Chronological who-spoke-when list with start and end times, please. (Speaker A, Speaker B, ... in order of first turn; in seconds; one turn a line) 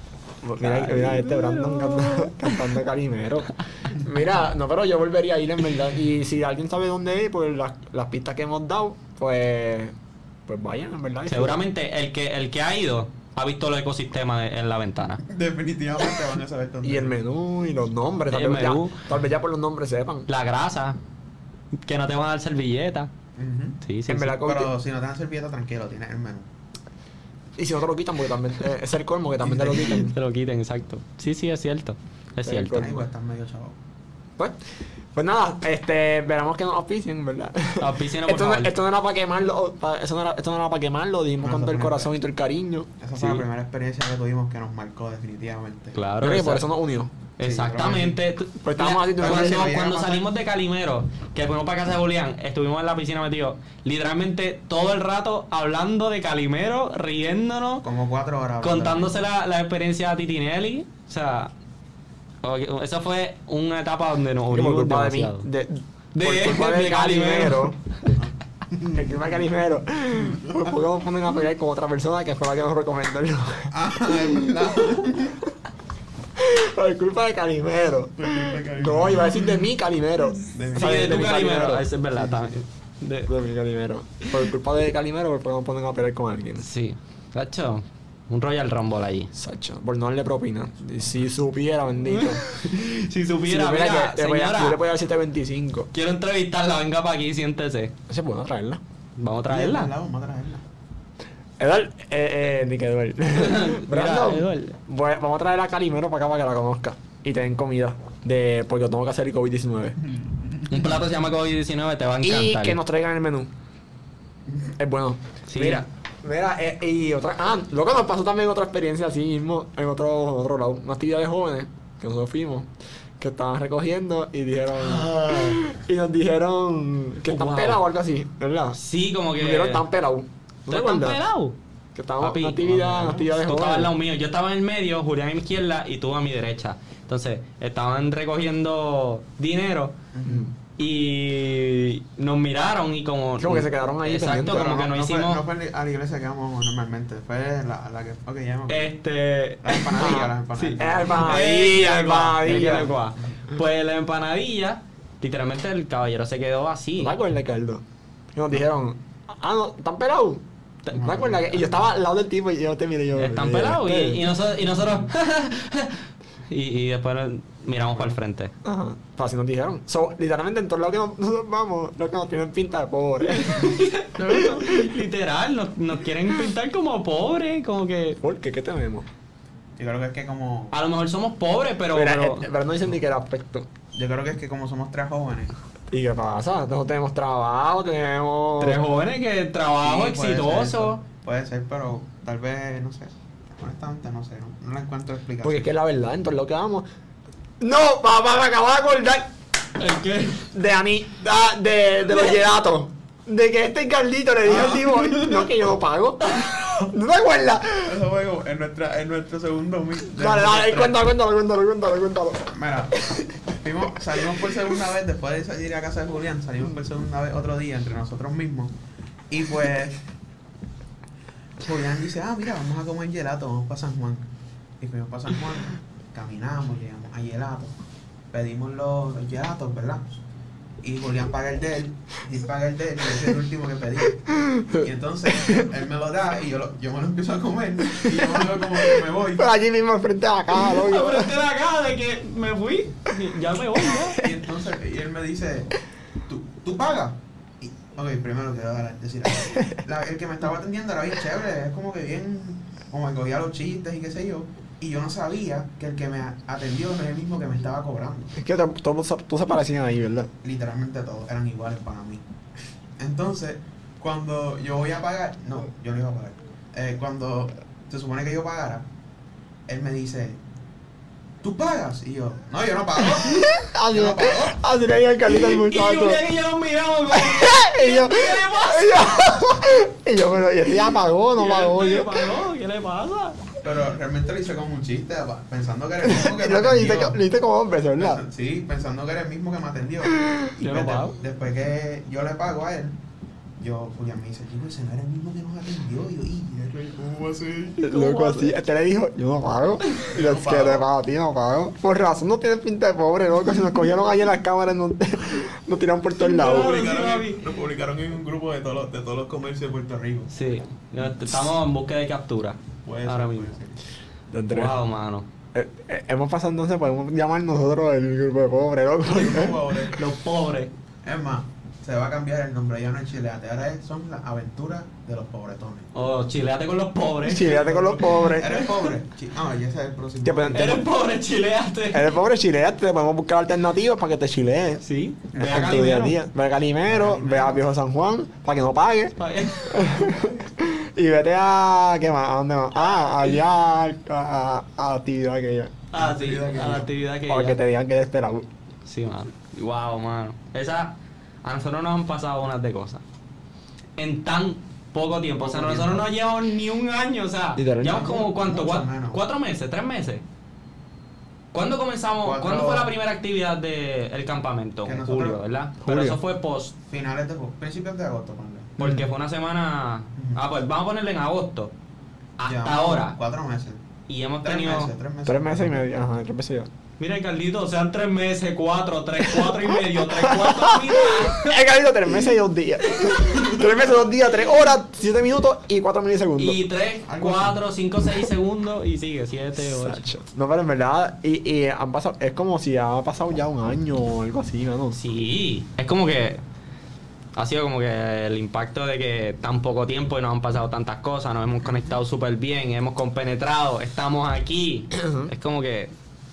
Speaker A: 0.4-9.9
Speaker B: 0.6-2.7
Speaker A: 10.5-11.6
Speaker B: 11.3-15.2
Speaker C: 15.2-17.1
Speaker A: 16.8-20.3
Speaker B: 18.3-19.0
Speaker B: 20.3-21.0
Speaker B: 21.8-23.1
Speaker C: 23.4-23.8
Speaker B: 23.8-24.4
Speaker A: 24.1-24.7
Speaker C: 24.4-26.5
Speaker A: 27.6-30.1
Speaker C: 29.4-30.0
Speaker B: 29.9-32.9
Speaker A: 32.4-33.0
Speaker C: 32.7-33.8
Speaker A: 35.1-42.9
Speaker B: 37.8-38.7
Speaker C: 41.4-42.1
Speaker C: 43.0-46.0
Speaker B: 45.9-46.7
Speaker A: 46.2-47.1
Speaker B: 47.4-57.8
Speaker C: 47.4-48.2
Speaker A: 48.6-49.7
Speaker C: 49.1-50.3
Speaker C: 57.8-59.1
Speaker B: 58.6-61.5
Speaker B: 62.4-65.5
Speaker A: 64.5-67.8
Speaker B: 66.1-67.7
Speaker C: 68.1-69.3
Speaker A: 68.9-74.2
Speaker C: 70.1-70.7
Speaker C: 73.7-75.5
Speaker A: 76.4-81.9
Speaker C: 78.2-79.6
Speaker C: 80.4-81.3
Speaker B: 80.7-83.3
Speaker C: 82.2-82.4
Speaker A: 83.3-86.6
Speaker B: 86.6-89.3
Speaker A: 89.3-92.4
Speaker B: 92.1-94.8
Speaker A: 93.4-95.9
Speaker B: 95.9-97.9
Speaker A: 98.1-98.8
Speaker B: 99.2-99.9
Speaker C: 99.5-100.6
Speaker A: 101.6-110.0
Speaker B: 103.3-104.8
Speaker C: 110.1-110.9
Speaker B: 110.7-112.8
Speaker A: 112.2-113.5
Speaker A: 114.8-128.8
Speaker B: 115.5-115.8
Speaker B: 124.8-125.6
Speaker B: 127.3-127.8
Speaker B: 128.7-129.8
Speaker A: 129.3-131.2
Speaker B: 130.7-131.5
Speaker A: 131.9-133.9
Speaker B: 132.2-139.9
Speaker C: 140.1-140.5
Speaker B: 140.8-145.4
Speaker A: 143.4-144.8
Speaker C: 144.5-148.9
Speaker B: 148.7-157.1
Speaker C: 149.6-151.4
Speaker A: 150.0-152.9
Speaker C: 152.7-153.3
Speaker A: 157.0-157.8
Speaker A: 158.3-164.2
Speaker C: 160.9-161.7
Speaker B: 163.2-168.5
Speaker C: 167.8-168.2
Speaker A: 168.6-174.9
Speaker B: 173.3-178.2
Speaker A: 178.2-179.1
Speaker C: 179.8-180.7
Speaker B: 180.7-182.4
Speaker A: 181.9-183.7
Speaker C: 183.9-185.6
Speaker A: 185.9-188.8
Speaker B: 188.6-191.0
Speaker C: 189.8-195.7
Speaker A: 195.4-196.8
Speaker A: 197.6-199.3
Speaker B: 199.8-200.5
Speaker A: 200.5-208.0
Speaker C: 204.5-205.4
Speaker C: 207.8-211.0
Speaker A: 210.1-213.2
Speaker C: 212.5-218.7
Speaker A: 214.1-214.6
Speaker C: 219.3-220.0
Speaker C: 221.6-224.2
Speaker C: 224.8-227.7
Speaker C: 228.3-230.2
Speaker C: 230.8-239.4
Speaker A: 234.3-235.7
Speaker A: 237.9-241.3
Speaker B: 240.6-244.2
Speaker A: 243.8-244.3
Speaker C: 244.1-245.7
Speaker C: 246.2-258.3
Speaker A: 249.5-249.8
Speaker A: 258.4-260.3
Speaker C: 260.4-262.2
Speaker C: 263.0-268.9
Speaker C: 269.7-270.4
Speaker C: 271.4-274.6
Speaker A: 273.0-276.2
Speaker B: 275.3-279.2
Speaker A: 277.1-282.3
Speaker B: 281.4-283.4
Speaker C: 283.6-287.2
Speaker A: 286.0-288.2
Speaker C: 288.0-292.9
Speaker B: 290.6-291.1
Speaker C: 293.6-297.8
Speaker A: 297.8-306.8
Speaker B: 297.8-298.5
Speaker C: 300.0-300.9
Speaker B: 306.2-307.4
Speaker C: 306.4-310.3
Speaker B: 310.3-313.5
Speaker C: 312.8-313.8
Speaker A: 314.3-314.8
Speaker B: 314.5-315.3
Speaker A: 315.5-319.9
Speaker C: 319.1-320.0
Speaker B: 319.9-320.7
Speaker C: 321.0-325.9
Speaker B: 325.9-328.3
Speaker A: 327.2-328.6
Speaker C: 327.5-330.8
Speaker A: 330.2-330.8
Speaker B: 330.5-332.1
Speaker A: 331.9-334.8
Speaker B: 334.8-336.2
Speaker C: 335.3-335.8
Speaker A: 335.4-339.1
Speaker C: 336.9-337.6
Speaker B: 339.2-340.0
Speaker A: 339.7-345.8
Speaker B: 345.9-347.6
Speaker C: 345.9-346.9
Speaker A: 347.3-348.5
Speaker B: 348.9-353.0
Speaker B: 354.0-360.2
Speaker C: 355.4-356.0
Speaker A: 357.6-358.1
Speaker C: 357.9-359.2
Speaker B: 361.5-366.7
Speaker C: 362.2-362.9
Speaker C: 364.8-365.4
Speaker A: 365.8-366.2
Speaker C: 366.9-369.0
Speaker B: 368.8-371.7
Speaker C: 370.1-370.4
Speaker B: 372.4-373.1
Speaker C: 372.4-373.8
Speaker B: 374.1-374.9
Speaker C: 374.4-375.8
Speaker A: 375.2-376.7
Speaker B: 377.0-381.6
Speaker A: 379.4-386.6
Speaker B: 386.4-390.1
Speaker C: 387.1-387.6
Speaker A: 389.6-395.0
Speaker B: 394.9-396.4
Speaker B: 397.4-405.9
Speaker A: 404.9-405.3